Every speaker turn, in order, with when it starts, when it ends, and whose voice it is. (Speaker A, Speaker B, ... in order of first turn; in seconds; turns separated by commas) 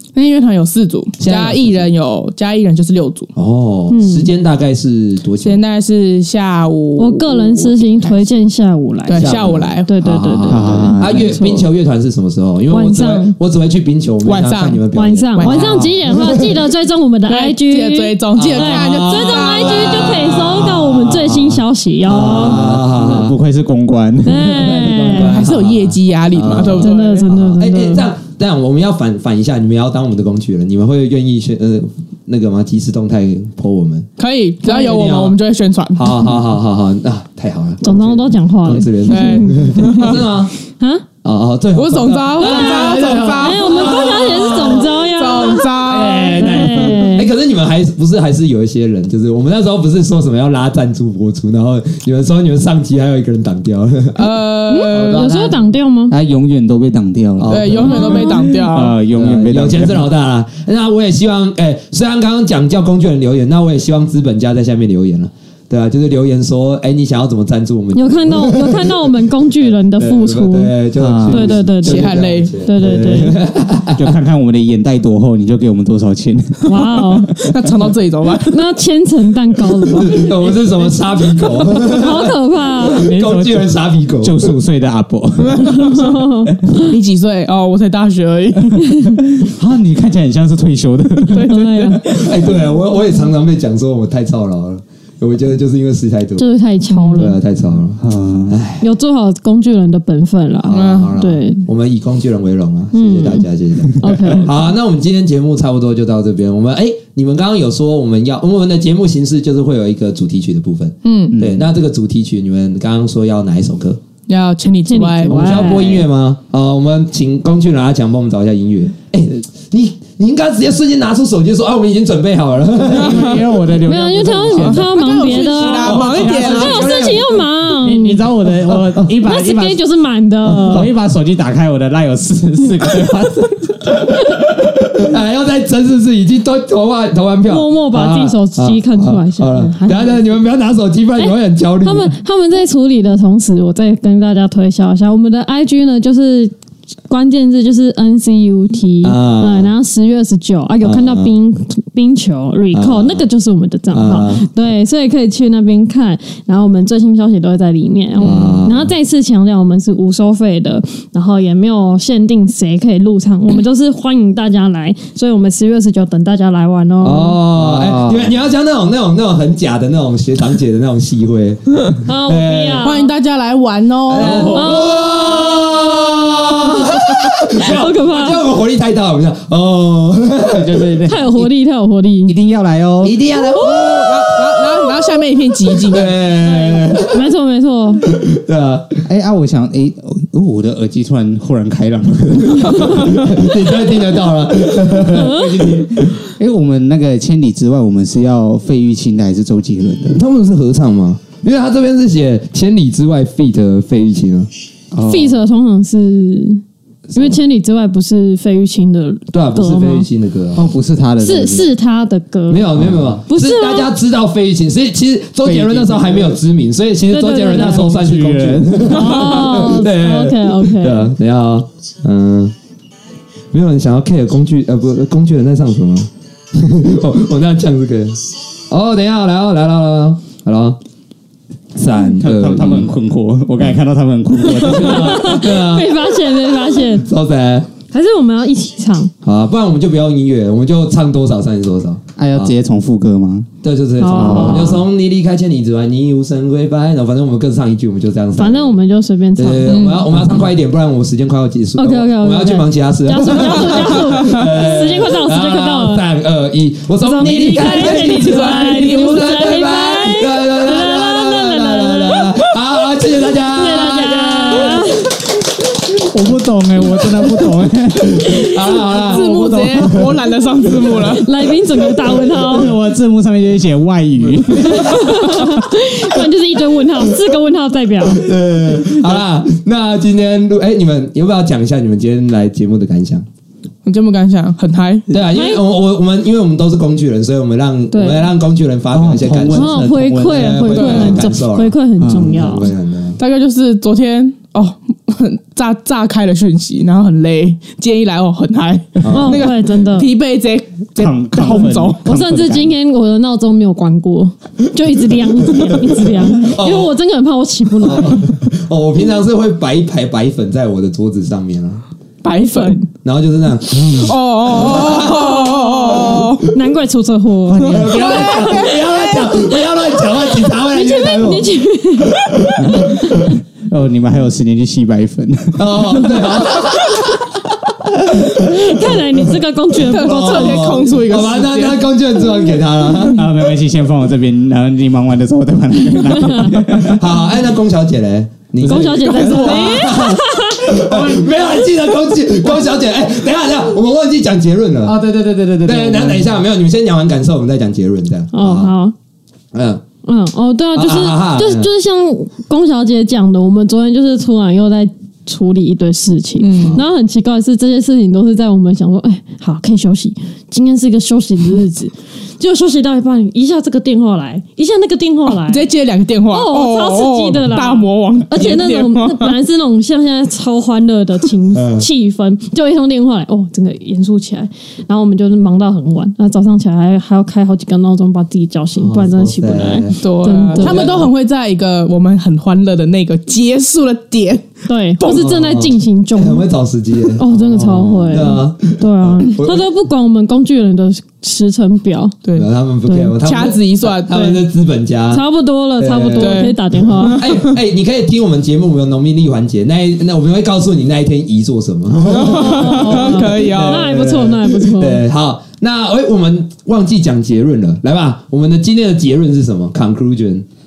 Speaker A: 0.1-3.3, Speaker B: 1.2-1.8, Speaker B: 3.4-5.6, Speaker C: 3.9-4.3, Speaker A: 5.4-8.1, Speaker C: 7.0-11.7, Speaker A: 9.1-9.9, Speaker B: 9.2-16.5, Speaker D: 10.5-11.4, Speaker C: 12.7-13.4, Speaker A: 14.2-14.8, Speaker C: 14.9-22.6, Speaker A: 15.3-15.7, Speaker D: 15.4-16.0, Speaker A: 17.3-20.7, Speaker B: 18.4-23.4, Speaker D: 22.1-24.9, Speaker C: 24.2-25.5, Speaker B: 24.4-34.1, Speaker A: 25.1-27.3, Speaker C: 26.8-28.1, Speaker A: 34.2-36.1, Speaker B: 34.6-35.4, Speaker B: 36.0-40.5, Speaker C: 37.8-41.1, Speaker A: 39.0-40.2, Speaker B: 41.2-45.0, Speaker A: 41.8-47.0, Speaker C: 42.4-45.8, Speaker B: 45.8-54.2, Speaker C: 46.3-47.3, Speaker A: 54.1-55.4, Speaker C: 54.7-56.1, Speaker B: 54.9-55.6, Speaker D: 56.1-60.1, Speaker B: 57.4-58.2, Speaker A: 57.5-59.0, Speaker C: 57.8-58.5, Speaker B: 59.1-69.2, Speaker C: 67.9-70.8, Speaker B: 70.0-74.1, Speaker D: 71.0-71.5, Speaker C: 71.3-73.4, Speaker A: 71.8-72.5, Speaker D: 74.0-77.5, Speaker C: 76.7-77.3, Speaker A: 77.5-78.6, Speaker C: 78.5-80.8, Speaker B: 79.9-84.5, Speaker C: 81.8-83.2, Speaker D: 83.0-86.1, Speaker C: 85.6-86.9, Speaker A: 86.8-88.8, Speaker D: 89.3-91.5, Speaker A: 91.3-92.0, Speaker C: 91.5-92.1, Speaker B: 92.1-96.5, Speaker C: 96.4-97.4, Speaker B: 97.2-98.9, Speaker D: 98.0-98.6, Speaker C: 98.8-101.7, Speaker B: 100.6-114.0, Speaker A: 100.7-101.2, Speaker C: 102.9-104.5, Speaker D: 104.0-104.3, Speaker A: 111.0-111.3, Speaker D: 111.3-111.7, Speaker A: 114.3-116.0, Speaker C: 114.9-116.1, Speaker B: 115.3-123.5, Speaker D: 122.9-124.9, Speaker A: 123.0-123.5, Speaker C: 123.8-128.3, Speaker A: 124.2-127.0, Speaker B: 125.8-127.5, Speaker D: 126.0-126.7, Speaker D: 127.8-129.8, Speaker C: 129.1-130.9, Speaker D: 130.5-133.9, Speaker B: 134.9-142.1, Speaker C: 137.5-140.2, Speaker C: 141.2-146.5, Speaker C: 147.1-167.4, Speaker B: 149.0-149.7, Speaker B: 150.8-151.3, Speaker B: 152.7-153.2, Speaker B: 153.9-154.5, Speaker B: 158.2-158.9, Speaker B: 167.0-172.9, Speaker D: 167.5-168.3, Speaker C: 172.0-173.1, Speaker A: 172.8-174.7, Speaker B: 174.1-180.8, Speaker C: 174.4-175.1, Speaker C: 177.5-178.5, Speaker D: 180.5-181.5, Speaker C: 181.1-182.3, Speaker D: 182.3-183.2, Speaker B: 183.0-184.3, Speaker C: 183.4-184.0, Speaker A: 183.6-186.3, Speaker B: 185.9-187.2, Speaker C: 186.5-188.0, Speaker B: 188.1-189.0, Speaker D: 189.1-193.5, Speaker B: 192.5-196.1, Speaker D: 194.8-200.2, Speaker C: 195.1-195.8, Speaker B: 200.1-204.5, Speaker D: 204.9-205.4, Speaker C: 205.0-206.6, Speaker B: 207.1-207.4, Speaker C: 207.1-210.1, Speaker B: 209.3-210.7, Speaker D: 210.5-211.7, Speaker C: 211.2-213.9, Speaker B: 212.5-222.5, Speaker D: 212.8-213.2, Speaker D: 215.4-216.4, Speaker C: 217.1-217.9, Speaker D: 217.4-219.1, Speaker C: 218.9-221.1, Speaker B: 223.5-230.8, Speaker B: 231.8-232.9, Speaker D: 232.1-235.4, Speaker B: 234.5-235.9, Speaker C: 234.7-237.1, Speaker B: 237.1-237.7, Speaker C: 237.9-239.1, Speaker B: 239.2-242.5, Speaker D: 242.2-243.5, Speaker B: 243.6-248.8, Speaker C: 244.0-244.8, Speaker D: 244.1-244.8, Speaker C: 248.4-249.8, Speaker B: 249.4-264.8, Speaker A: 249.7-250.2, Speaker C: 251.8-256.0, Speaker A: 253.3-254.4, Speaker C: 257.0-262.4, Speaker A: 257.6-260.3, Speaker C: 263.4-265.1, Speaker A: 263.8-264.8, Speaker D: 265.9-268.7, Speaker B: 268.2-270.1, Speaker A: 268.9-271.3, Speaker D: 269.2-270.1, Speaker C: 271.1-272.7, Speaker D: 272.3-275.6, Speaker C: 274.5-278.3, Speaker B: 278.1-283.2, Speaker A: 283.9-285.1, Speaker B: 285.1-293.2, Speaker C: 285.3-285.6, Speaker C: 287.9-288.2, Speaker D: 288.9-290.6, Speaker C: 289.5-292.7, Speaker A: 290.7-291.3, Speaker D: 292.0-292.4, Speaker A: 293.2-302.0, Speaker B: 299.0-299.5, Speaker C: 299.1-300.1, Speaker D: 301.0-302.7, Speaker C: 301.5-308.3, Speaker B: 306.4-306.9, Speaker B: 307.8-311.8, Speaker A: 312.2-312.9, Speaker B: 313.0-315.3, Speaker A: 313.9-316.5, Speaker C: 315.1-323.3, Speaker B: 316.0-316.3, Speaker B: 317.6-321.5, Speaker A: 317.7-319.4, Speaker B: 322.4-323.2, Speaker D: 322.6-326.3, Speaker B: 325.6-327.1, Speaker C: 328.3-330.9, Speaker B: 328.4-329.1, Speaker A: 329.9-331.9, Speaker B: 330.0-333.2, Speaker D: 333.1-337.0, Speaker B: 336.8-345.0, Speaker C: 338.6-340.8, Speaker A: 338.6-339.9, Speaker D: 340.8-341.3, Speaker D: 344.8-346.4, Speaker B: 345.6-348.7, Speaker C: 348.3-348.9, Speaker B: 349.5-349.8, Speaker C: 350.1-365.7, Speaker B: 350.7-351.7, Speaker A: 356.4-356.8, Speaker B: 356.6-356.9, Speaker A: 365.3-369.3, Speaker C: 366.3-380.9, Speaker B: 371.5-371.9, Speaker B: 378.8-381.1, Speaker A: 380.0-385.2, Speaker C: 384.7-386.5, Speaker B: 385.0-389.7, Speaker C: 387.1-392.2, Speaker D: 387.7-388.4, Speaker B: 392.4-395.2, Speaker C: 392.9-393.2, Speaker A: 393.2-394.5, Speaker C: 395.1-397.3, Speaker B: 395.8-396.5, Speaker A: 396.0-397.6, Speaker B: 397.1-410.4, Speaker A: 402.1-403.9, Speaker C: 402.1-405.0